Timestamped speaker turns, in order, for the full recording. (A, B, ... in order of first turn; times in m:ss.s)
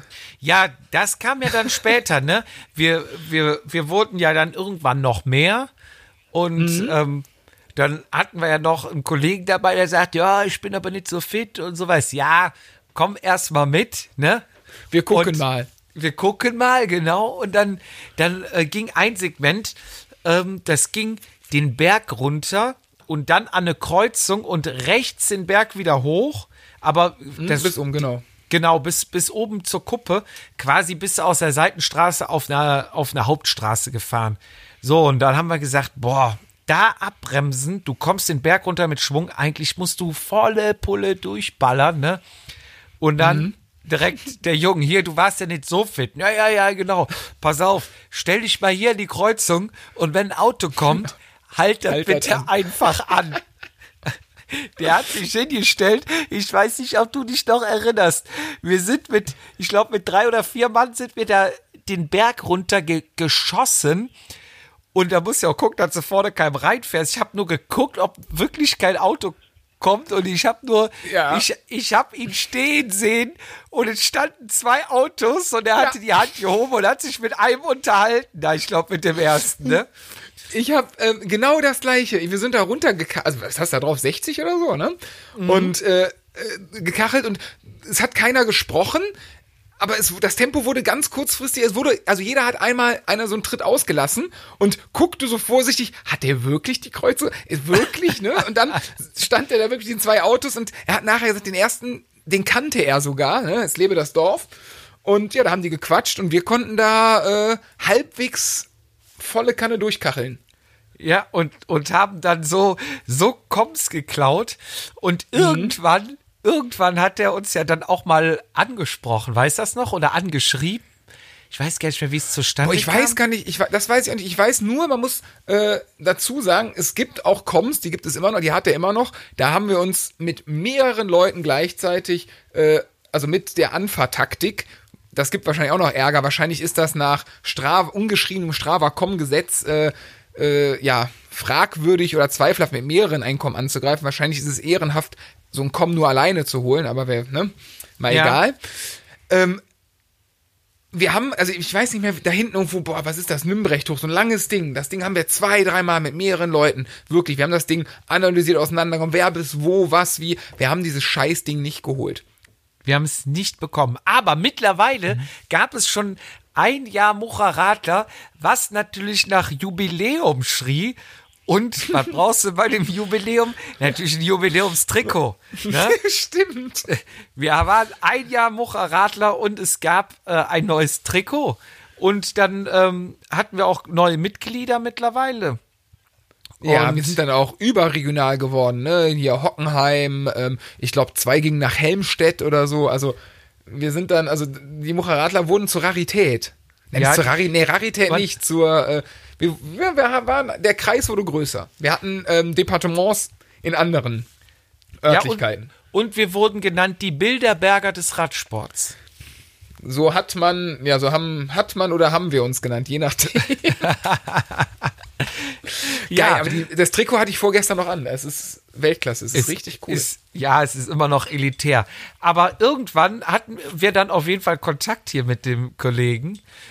0:00.4-0:05.7 A
0:06.3-0:14.5 A
0:06.6-0:07.0 B
0:14.9-0:15.7 B
0:15.1-0:15.4 A
0:15.9-0:27.8 A
0:27.4-0:28.2 B
0:28.5-0:42.2 A
0:43.0-0:53.4 A
0:43.2-0:43.5 B
0:51.9-0:52.5 B
0:54.5-1:04.1 A
1:04.9-1:19.9 A
1:11.0-1:11.4 B
1:20.5-1:29.1 B
1:25.4-1:25.7 A
1:29.8-1:44.5 B
1:45.0-1:50.4 B
1:51.0-2:00.9 A
1:55.4-1:55.8 B
2:01.5-2:03.2 A
2:02.6-2:29.6 B
2:28.1-2:28.4 A
2:30.9-2:42.2 B
2:42.8-2:56.0 A
2:55.6-2:56.9 B
2:56.9-3:05.6 A
3:06.6-3:07.2 A
3:06.6-3:24.3 B
3:17.0-3:17.3 A
3:25.0-3:25.7 B
3:25.1-3:29.0 A
3:29.8-3:33.9 B
3:33.8-3:34.9 A
3:35.5-3:36.6 A
3:35.9-3:40.1 B
3:39.3-3:46.4 A